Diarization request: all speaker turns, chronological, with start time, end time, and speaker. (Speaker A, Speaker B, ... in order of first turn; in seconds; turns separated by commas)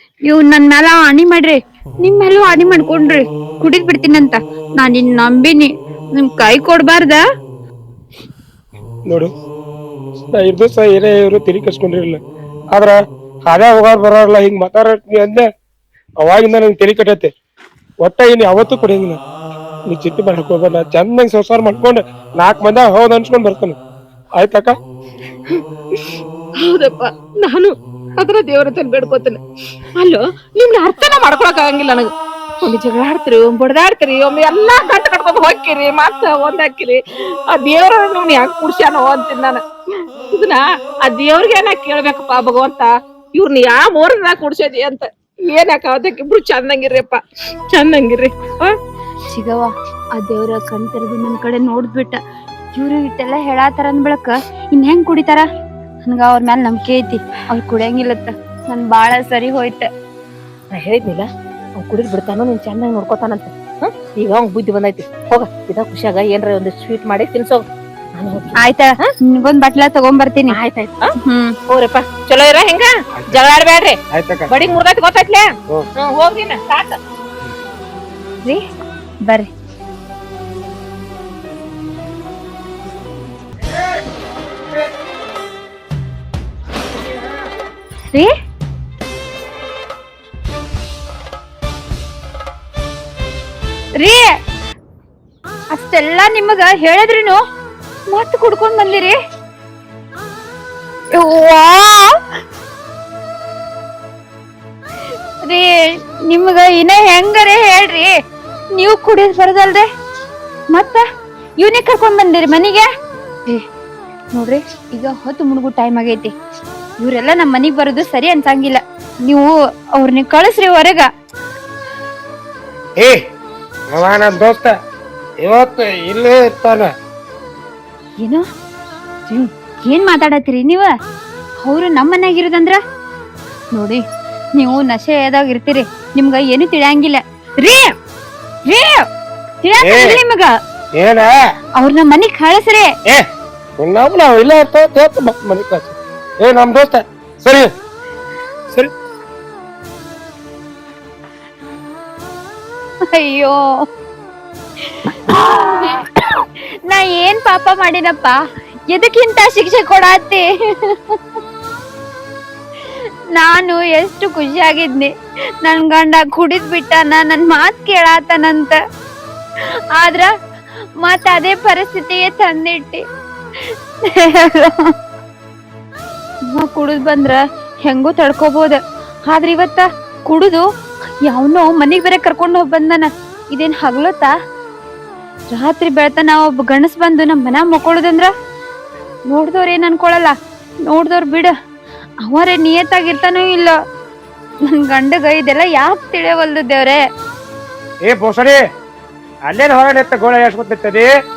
Speaker A: 0.3-7.2, Speaker B: 10.3-12.2, Speaker B: 12.7-15.5, Speaker B: 16.2-17.3, Speaker B: 18.0-19.2, Speaker B: 19.9-23.8, Speaker B: 24.4-24.8, Speaker C: 25.5-29.4, Speaker C: 30.0-32.1, Speaker C: 32.6-37.0, Speaker C: 37.5-39.6, Speaker C: 40.3-47.2, Speaker C: 47.7-48.7, Speaker A: 49.3-52.2, Speaker A: 52.7-55.5, Speaker A: 56.0-59.9, Speaker C: 60.7-61.2, Speaker C: 61.8-67.7, Speaker C: 68.2-68.5, Speaker A: 68.6-70.6, Speaker C: 70.5-71.1, Speaker A: 71.2-71.5, Speaker C: 71.7-74.0, Speaker B: 74.1-74.5, Speaker C: 74.5-75.5, Speaker C: 76.0-77.0, Speaker A: 94.0-94.3, Speaker A: 95.7-97.4, Speaker A: 98.1-99.1, Speaker A: 101.1-102.1, Speaker A: 105.5-108.1, Speaker A: 108.7-109.9, Speaker A: 110.7-111.0, Speaker A: 111.6-112.9, Speaker A: 114.3-116.3, Speaker A: 117.0-121.1, Speaker B: 123.9-124.7, Speaker B: 125.4-126.9, Speaker A: 129.3-130.9, Speaker A: 131.6-132.8, Speaker A: 133.7-134.0, Speaker A: 134.5-137.9, Speaker A: 138.7-139.1, Speaker A: 139.6-140.5, Speaker B: 139.8-140.2, Speaker B: 140.9-141.3, Speaker A: 141.8-142.9, Speaker B: 143.8-147.7, Speaker A: 153.1-153.6, Speaker A: 154.9-158.4, Speaker A: 158.9-161.2, Speaker A: 163.3-165.1, Speaker A: 165.6-168.8, Speaker A: 169.9-170.3, Speaker A: 171.0-173.0, Speaker A: 173.6-174.9, Speaker A: 176.5-180.6, Speaker A: 181.2-184.3, Speaker A: 185.5-188.3, Speaker A: 189.3-190.3, Speaker A: 190.9-191.5, Speaker A: 192.2-193.8, Speaker A: 194.7-197.0, Speaker B: 198.0-198.6, Speaker B: 199.5-201.1